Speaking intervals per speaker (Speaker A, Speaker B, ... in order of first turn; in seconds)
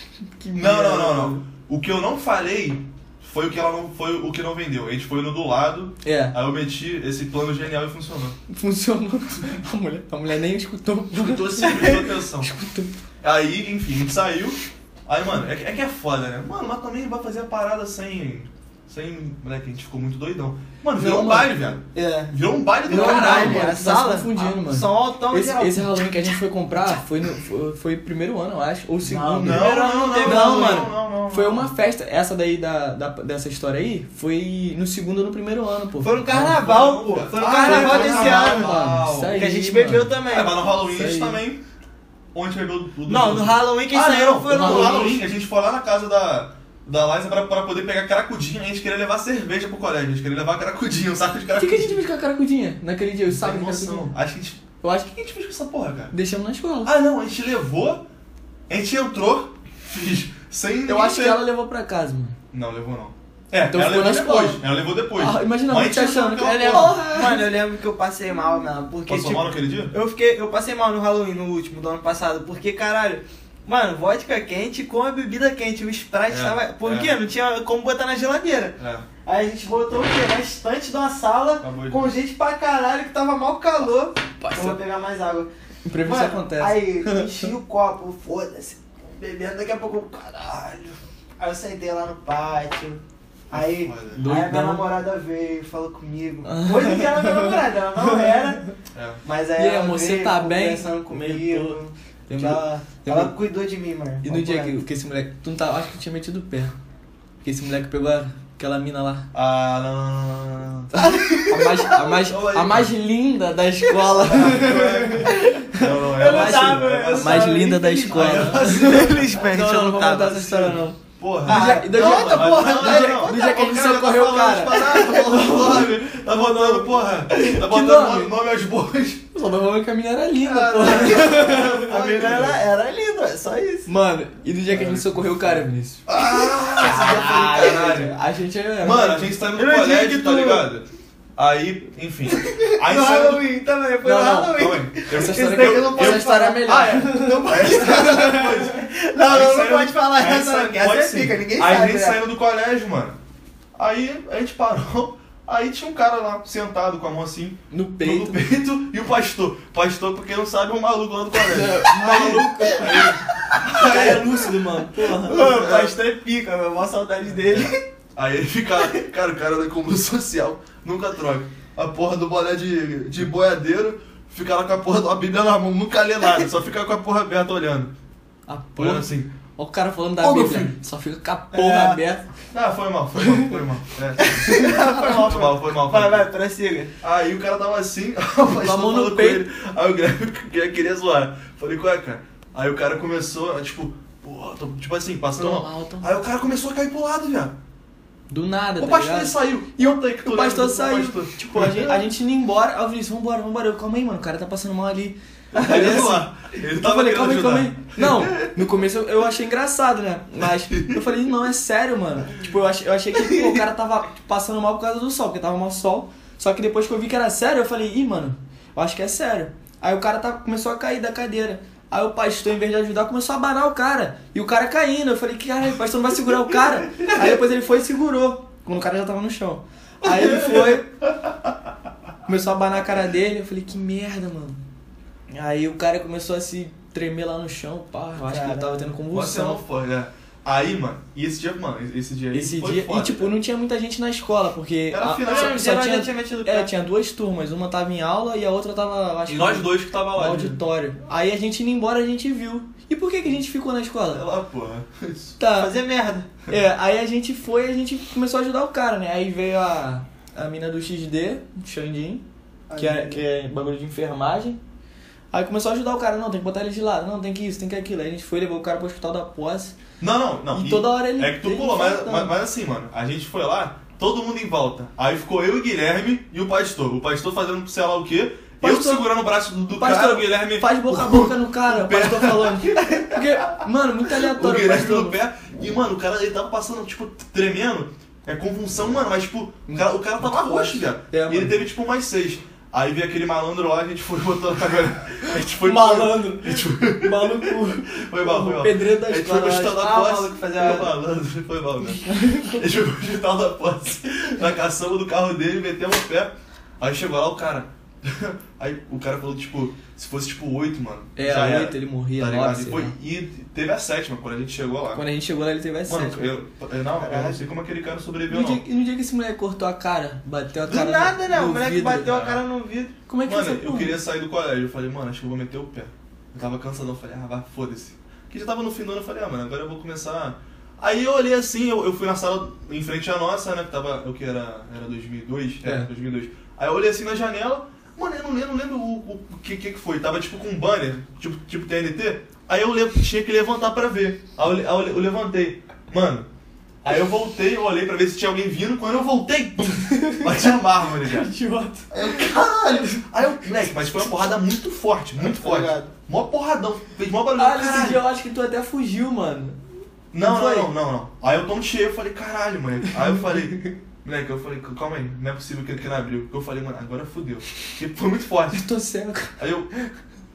Speaker A: 0.4-1.4, 6.0-6.3, 8.5-12.9, 21.0-21.5, 22.9-36.7, 37.4-41.4, 44.5-45.2, 51.6-54.1, 54.8-55.2, 56.1-56.9, 60.9-62.4, 63.7-67.5, 84.4-84.8, 85.8-87.5, 94.1-94.9, 96.5-98.5, 99.5-103.3, 104.2-106.7, 107.4-109.3, 111.0-128.3, 129.3-132.0, 133.9-136.0, 136.8-139.3, 144.0-148.5, 157.7-158.4, 161.4-165.5, 178.5-182.2, 183.2-183.6, 184.5-185.3, 188.5-189.4, 195.4-196.2, 198.3-230.9, 232.2-234.6, 235.3-239.6, 242.3-254.2, 255.4-255.7, 256.5-262.2, 262.8-264.6, 265.3-269.7, 270.5-272.3, 278.6-279.1, 279.7-285.2, 289.7-291.6, 295.5-299.9, 302.0-302.6, 311.1-312.9, 314.9-316.3, 318.3-322.1, 323.1-324.0, 349.9-352.4, 357.4-359.6, 360.1-360.7, 363.1-363.4, 368.5-369.4
Speaker B: 0.5-8.4, 11.2-12.5, 13.2-23.7, 29.4-31.7, 36.3-39.4, 40.3-41.6, 42.3-52.0, 53.3-56.1, 56.8-58.0, 58.7-61.4, 62.5-67.0, 69.1-69.9, 76.3-77.2, 78.8-79.0, 81.6-82.1, 93.5-94.2, 98.9-99.2, 109.3-110.9, 112.0-112.9, 114.2-119.2, 121.2-129.3, 130.4-132.6, 134.7-138.2, 138.8-140.8, 141.4-143.5, 144.5-153.2, 153.8-164.6, 165.2-165.9, 167.5-177.9, 178.8-179.3, 180.2-180.7, 182.5-186.3, 187.0-197.5, 198.8-202.0, 205.5-208.6, 210.7-211.0, 230.1-230.8, 239.1-243.3, 244.9-245.6, 249.3-250.6, 254.1-255.4, 270.0-283.6, 284.1-315.0, 315.9-318.6, 322.1-322.4, 323.2-346.3, 346.8-351.3, 351.9-358.0, 360.1-368.7, 369.4-369.7
Speaker C: 11.7-11.9, 21.9-25.9, 29.0-30.9, 36.0-40.7, 43.0-45.3, 66.4-85.5, 86.0-93.0, 93.5-98.6, 99.2-104.8, 110.9-112.0, 113.9-114.5, 115.3-115.6, 116.1-120.8, 121.5-123.8, 124.7-125.5, 130.7-133.9, 136.2-138.0, 139.5-140.7, 142.3-152.2, 162.8-164.5, 165.2-167.8, 181.5-182.0, 184.2-186.9, 238.2-238.9, 245.2-246.7, 255.5-256.3, 262.7-263.2, 299.7-300.9, 317.0-317.4, 320.6-322.9, 355.2-355.9